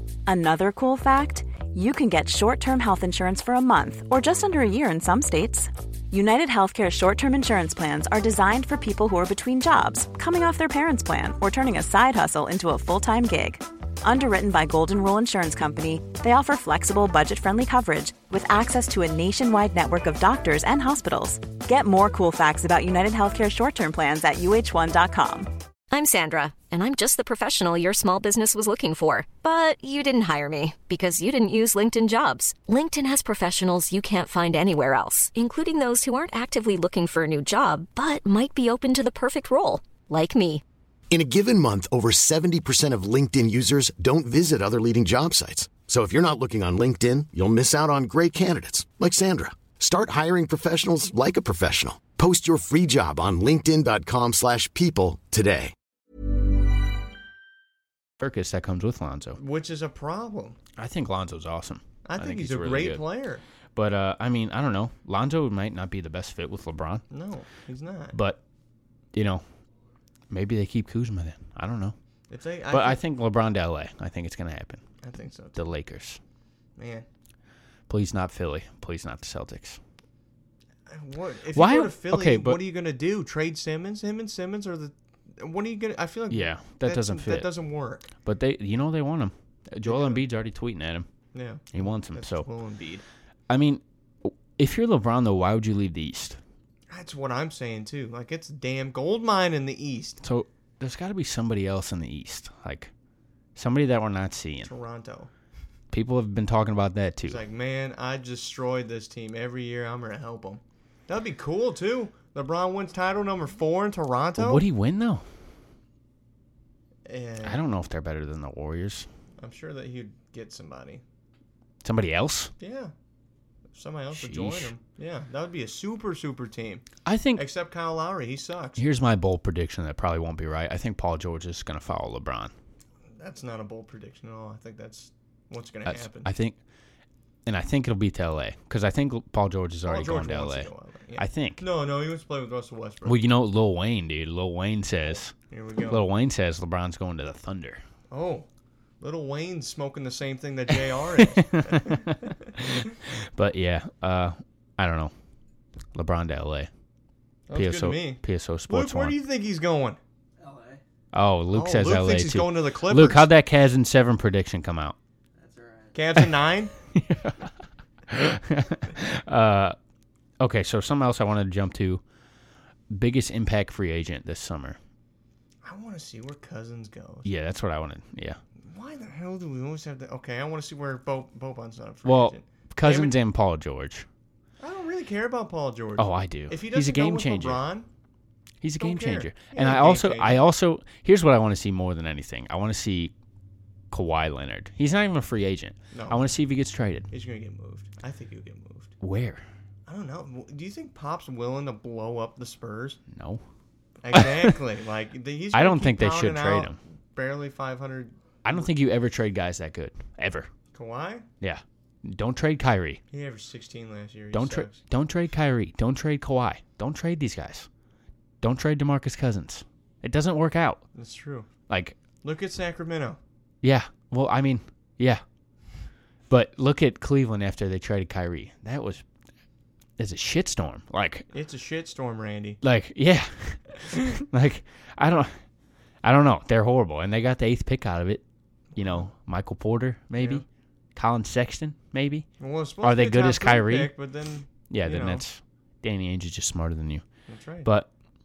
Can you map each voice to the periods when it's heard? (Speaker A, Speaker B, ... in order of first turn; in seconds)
Speaker A: 0.2-25.5
Speaker B: 25.9-40.6
Speaker C: 41.1-55.7
Speaker D: 58.2-59.4, 60.8-63.0, 63.7-67.0, 68.1-68.4, 69.1-69.4, 70.3-71.9, 72.7-74.8, 75.5-76.2, 77.9-79.8, 81.5-82.6, 86.3-87.5, 88.2-91.1, 91.7-92.5, 93.5-96.4, 100.2-102.9, 103.5-104.7, 105.9-107.4, 114.4-115.2, 117.4-119.1, 121.8-122.5, 124.1-124.7, 127.0-127.4, 128.8-132.5, 135.8-136.6, 137.4-141.6, 143.0-147.8, 151.2-155.1, 155.9-156.7, 157.5-159.2, 161.1-164.9, 166.9-167.5, 168.1-169.8, 170.4-172.0, 172.9-174.8, 177.2-178.4, 182.0-184.1, 186.0-187.6, 188.6-193.1, 193.9-197.1, 199.0-199.4, 203.1-203.4, 204.1-204.5, 205.5-206.8, 208.4-210.5, 211.4-213.0, 214.3-217.7, 218.4-220.8, 221.7-222.0, 223.6-225.2, 226.3-229.0, 230.0-231.3, 232.6-235.3, 236.0-238.2, 238.8-240.4, 240.9-242.3, 242.8-243.9, 244.7-247.0
Speaker E: 59.4-60.6, 62.0-63.4, 67.1-68.2, 72.3-73.0, 75.0-75.6, 76.8-77.0, 80.9-88.1, 89.8-90.2, 91.3-93.0, 96.9-100.2, 104.6-105.3, 107.2-114.6, 117.0-117.6, 119.4-121.0, 122.6-122.9, 123.7-128.8, 133.2-136.3, 139.8-143.2, 145.1-146.0, 148.1-148.5, 149.0-152.5, 157.5-160.0, 161.5-163.3, 165.9-166.7, 175.6-177.3, 178.6-183.1, 184.6-187.9, 188.8-190.4, 195.9-196.2, 197.1-198.9, 199.9-203.0, 204.0-208.6, 210.7-211.2, 213.1-214.8, 220.9-221.5, 222.2-223.2, 231.3-232.6, 238.7-239.1, 240.2-240.4, 242.4-245.2, 247.3-247.7